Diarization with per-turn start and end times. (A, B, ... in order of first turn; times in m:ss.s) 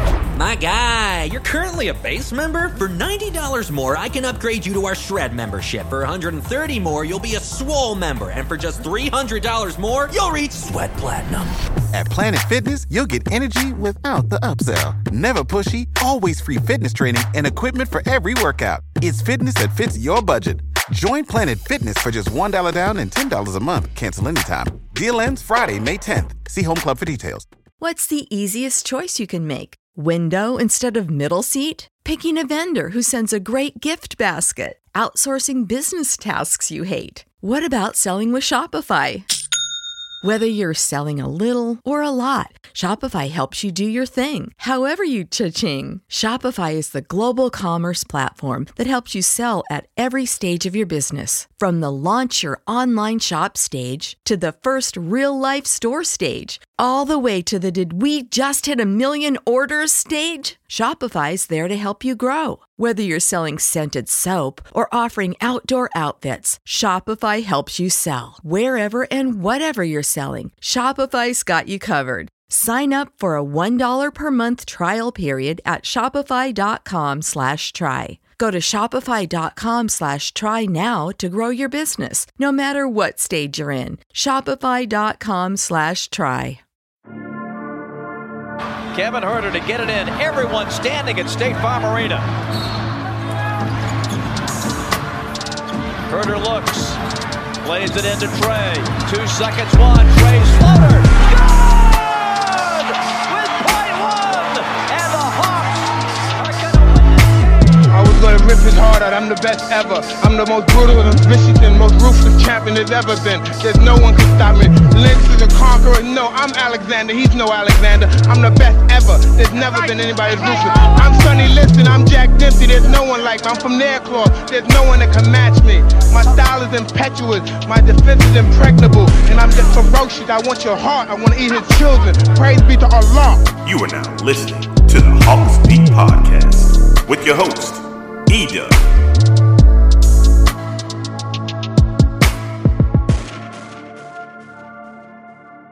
0:00.4-0:11.6 A
0:11.9-0:27.4 B
0:27.8-0:39.3 C
0:40.2-1:26.6 C
1:28.9-1:32.3 D
1:36.1-1:37.0 D
1:37.6-1:47.8 D
1:47.9-2:13.5 E
2:13.6-2:18.8 F